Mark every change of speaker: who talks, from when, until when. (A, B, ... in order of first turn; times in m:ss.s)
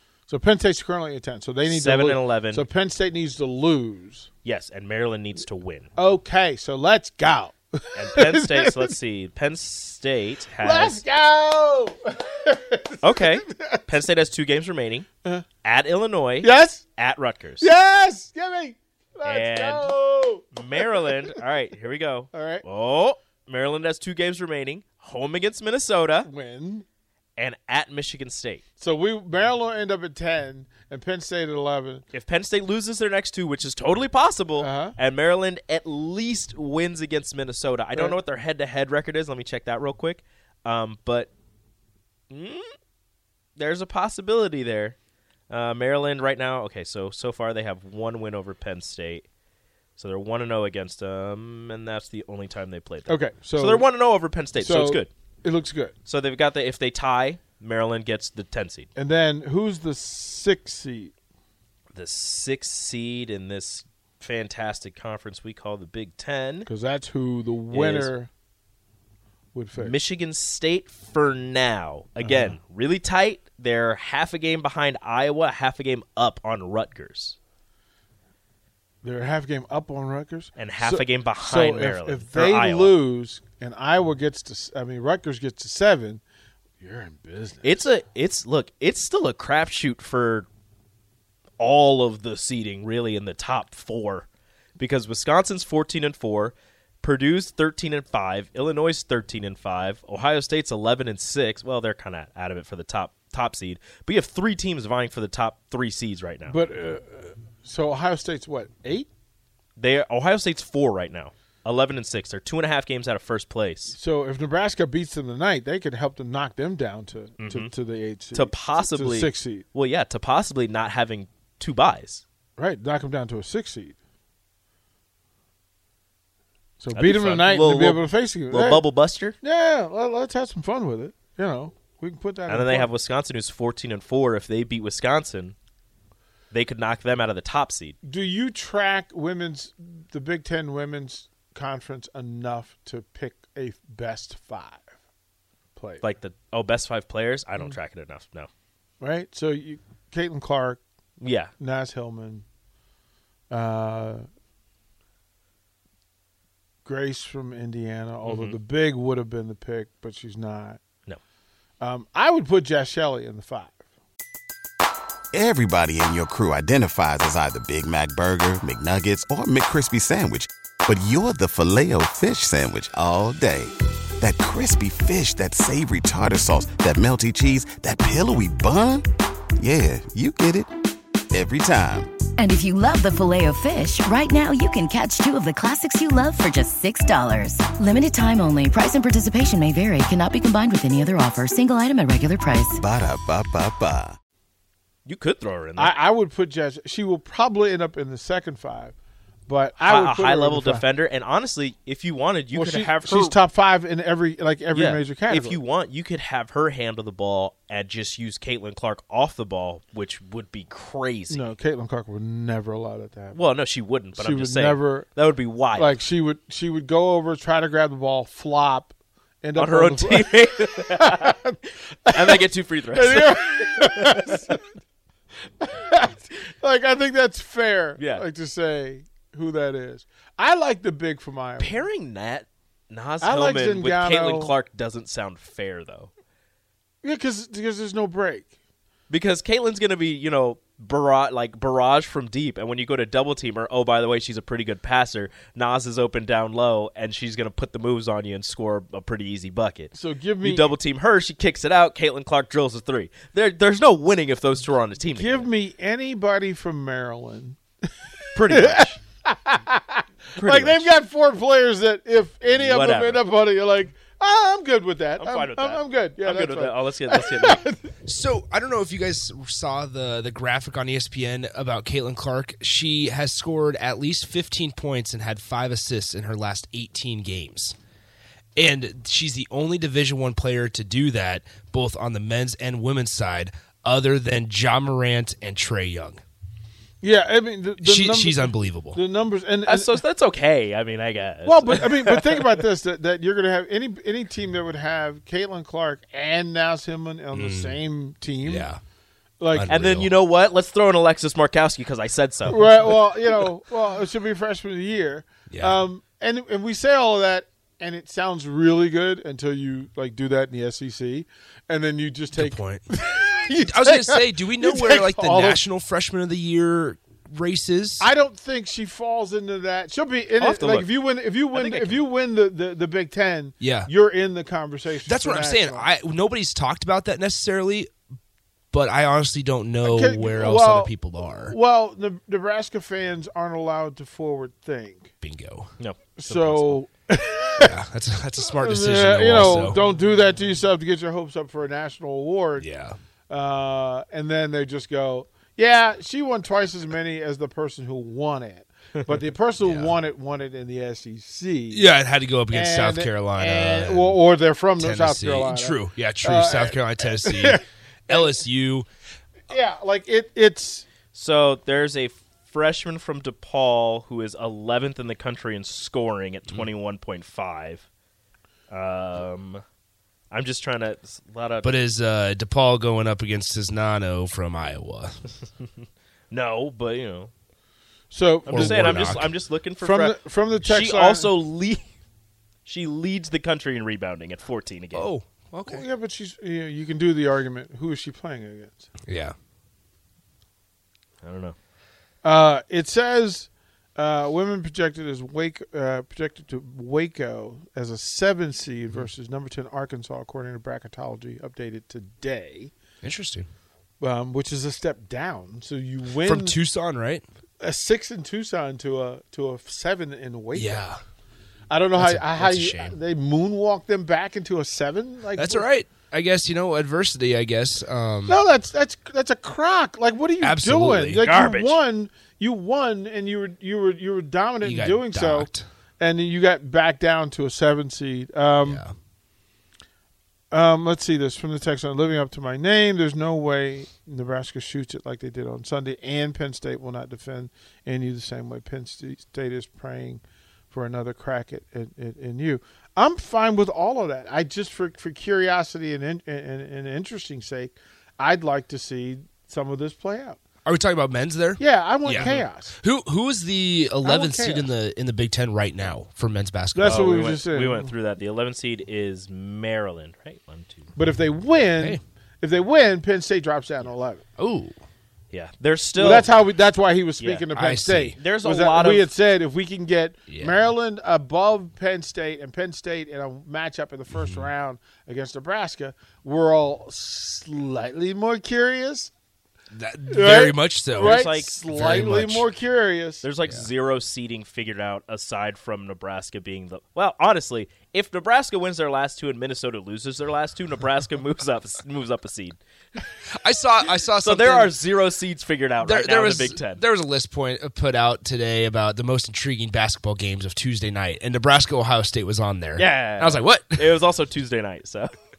0:00.3-0:04.3 A
0:01.7-0:02.6 B
0:04.4-0:05.9 B
0:06.0-0:08.9 A
0:07.9-0:11.0 B
0:10.6-0:13.8 A
0:13.0-0:15.1 B
0:15.6-0:17.7 B
0:16.4-0:16.8 A
0:17.6-0:21.2 A
0:19.2-0:19.9 B
0:20.5-0:26.3 B
0:22.3-0:22.6 A
0:26.2-0:26.8 A
0:27.4-0:28.6 B
0:28.8-0:32.0 A
0:32.1-0:41.3 B
0:34.6-0:35.0 A
0:42.3-0:42.7 B
0:43.6-0:45.0 B
0:45.5-0:49.2 B
0:50.0-0:55.1 B
0:53.1-0:53.9 A
0:54.5-0:55.9 A
0:56.0-0:58.9 B
0:59.0-1:01.1 A
1:01.9-1:06.7 B
1:06.6-1:08.3 A
1:07.7-1:08.1 B
1:09.5-1:10.0 A
1:09.8-1:17.4 B
1:12.2-1:12.6 A
1:19.0-1:26.2 A
1:20.6-1:23.0 B
1:26.8-1:27.9 A
1:27.6-1:30.5 B
1:31.6-1:34.3 B
1:34.8-1:46.6 B
1:46.4-1:49.1 A
1:49.8-1:54.0 B
1:53.9-1:59.6 A
1:57.4-1:57.7 B
1:58.3-2:02.2 B
2:02.6-2:04.0 A
2:06.8-2:08.8 A
2:06.9-2:09.4 B
2:09.4-2:12.9 A
2:12.5-2:15.5 B
2:16.5-2:18.0 B
2:18.0-2:24.9 A
2:25.8-2:26.0 A
2:26.0-2:28.5 B
2:29.0-2:30.8 A
2:31.2-2:31.5 B
2:31.6-2:32.4 A
2:33.5-2:34.2 A
2:36.8-2:40.8 A
2:38.2-2:38.6 B
2:41.8-2:43.8 A
2:45.3-2:59.0 C
2:59.6-3:00.7 C
3:01.3-3:02.1 C
3:02.4-3:12.8 D
3:12.8-3:14.2 C
3:15.0-3:15.9 B
3:15.8-3:19.0 A
3:19.5-3:20.8 A
3:19.8-3:23.4 B
3:22.5-3:25.6 A
3:24.7-3:31.5 B
3:31.3-3:33.4 A
3:33.3-3:36.0 B
3:34.1-3:35.1 A
3:35.7-3:44.6 A
3:39.5-3:41.3 B
3:42.1-3:44.6 B
3:45.6-3:51.8 A
3:48.0-3:48.2 B
3:51.6-3:56.1 B
3:53.2-3:54.5 A
3:57.0-3:58.5 A
3:59.1-4:15.5 B
4:09.9-4:10.7 A
4:15.1-4:17.6 A
4:18.3-4:19.0 B
4:18.4-4:27.9 A
4:20.4-4:20.9 B
4:22.5-4:23.2 B
4:25.2-4:27.6 B
4:28.0-4:37.8 E
4:38.6-4:46.2 E
4:47.0-4:50.0 A
4:47.8-4:49.0 E
4:49.7-4:52.6 B
4:51.4-4:58.7 A
4:57.3-4:57.8 E
4:58.4-4:58.8 E
4:59.4-4:59.7 A
4:59.5-5:00.2 E
4:59.7-5:03.0 B
5:02.5-5:15.6 A
5:05.5-5:05.8 E
5:12.4-5:12.8 E
5:13.6-5:18.0 E
5:18.0-5:25.8 A
5:20.4-5:20.9 B
5:21.5-5:22.0 B
5:23.6-5:23.9 E
5:25.0-5:27.9 E
5:28.7-5:31.6 E
5:29.8-5:35.1 A
5:35.2-5:35.7 E
5:35.8-5:36.8 B
5:36.2-5:37.8 A
5:37.6-5:39.8 E
5:38.5-5:42.6 A
5:42.6-5:43.0 E
5:43.3-5:51.9 A
5:49.6-5:49.9 E
5:51.7-5:54.2 E
5:52.5-5:58.3 A
5:54.8-5:58.9 E
5:59.5-6:00.8 A
6:01.1-6:07.9 B
6:08.7-6:09.6 B
6:10.3-6:11.7 B
6:11.6-6:15.2 E
6:16.3-6:17.3 B
6:18.1-6:19.2 A
6:18.5-6:19.3 E
6:18.5-6:21.9 B
6:19.8-6:21.3 A
6:22.6-6:25.1 B
6:24.9-6:25.8 E
6:25.6-6:28.9 A
6:29.1-6:29.3 E
6:31.2-6:31.6 B
6:32.2-6:42.7 A
6:43.0-6:43.5 E
6:44.0-6:46.6 A
6:46.2-6:47.2 E
6:47.6-6:50.8 A
6:50.5-6:51.0 E
6:51.7-6:55.6 A
6:51.9-6:53.0 E
6:55.4-6:58.4 E
6:58.3-7:08.8 A
7:00.4-7:01.2 E
7:01.2-7:01.8 B
7:04.6-7:05.6 E
7:08.6-7:08.9 E
7:10.5-7:30.4 A
7:30.6-7:37.1 E
7:31.6-7:32.7 A
7:32.2-7:32.4 B
7:34.0-7:34.7 A
7:36.7-7:37.9 A
7:36.8-7:40.9 B
7:41.0-7:44.2 A
7:44.4-7:44.7 E
7:45.3-7:46.3 B
7:46.0-7:59.1 A
7:47.2-7:47.5 B
7:47.5-7:48.2 E
7:48.2-7:49.1 B
7:50.3-7:50.6 E
7:54.1-7:54.4 E
7:59.7-8:02.5 E
8:00.1-8:03.2 A
8:01.0-8:01.6 B
8:03.2-8:13.0 B
8:13.4-8:14.8 E
8:14.1-8:16.8 B
8:15.8-8:23.9 E
8:22.8-8:25.1 B